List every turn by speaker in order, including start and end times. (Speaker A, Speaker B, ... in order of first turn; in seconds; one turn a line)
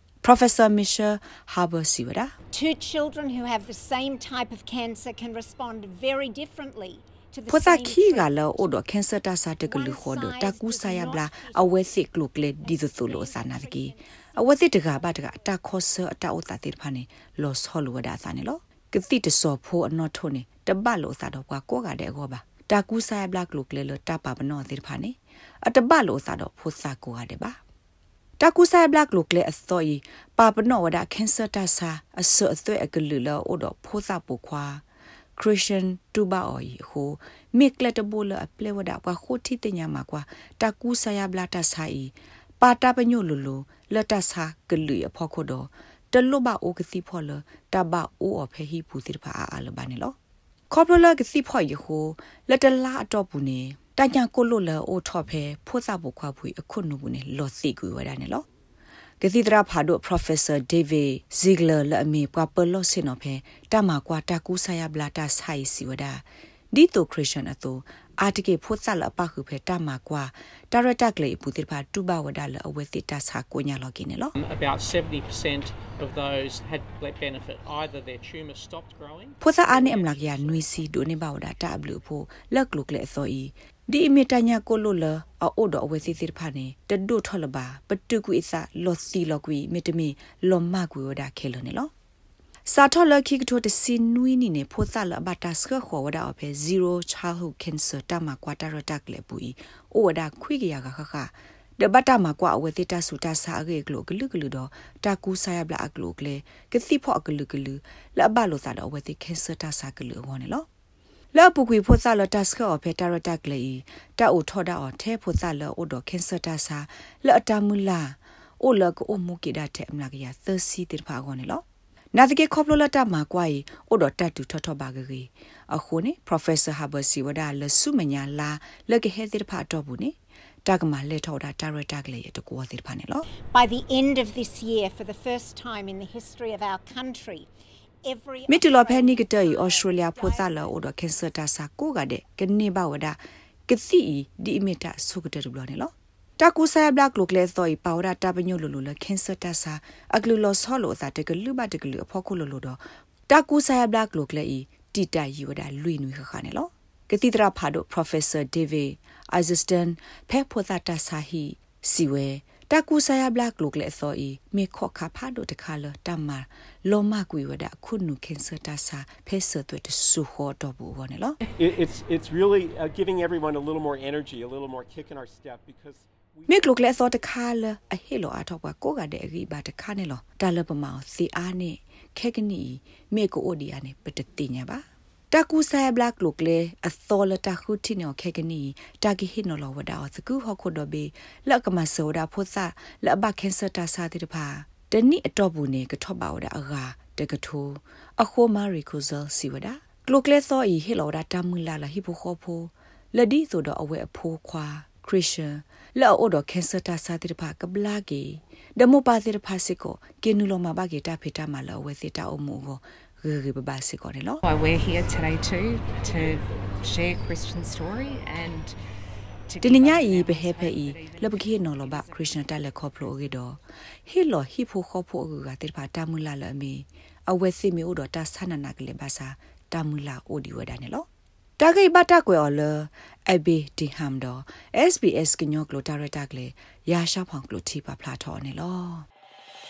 Speaker A: 0.2-2.3
Speaker B: 2.5-8.7
Speaker A: 7.5-27.6
Speaker B: 9.7-11.9
Speaker B: 12.6-15.5
Speaker A: 28.4-34.8
Speaker A: 35.4-50.1
Speaker A: 50.7-58.4
Speaker A: 59.2-74.3
Speaker C: 74.4-80.9
Speaker A: 79.4-91.9
Speaker A: 92.7-110.7
Speaker A: 111.3-133.2
Speaker B: 133.5-137.5
Speaker B: 138.0-141.0
Speaker A: 138.5-171.4
Speaker D: 171.6-177.1
Speaker A: 176.5-214.4
Speaker E: 214.4-218.8
Speaker E: 219.5-223.0
Speaker A: 219.6-231.1
Speaker A: 231.6-239.1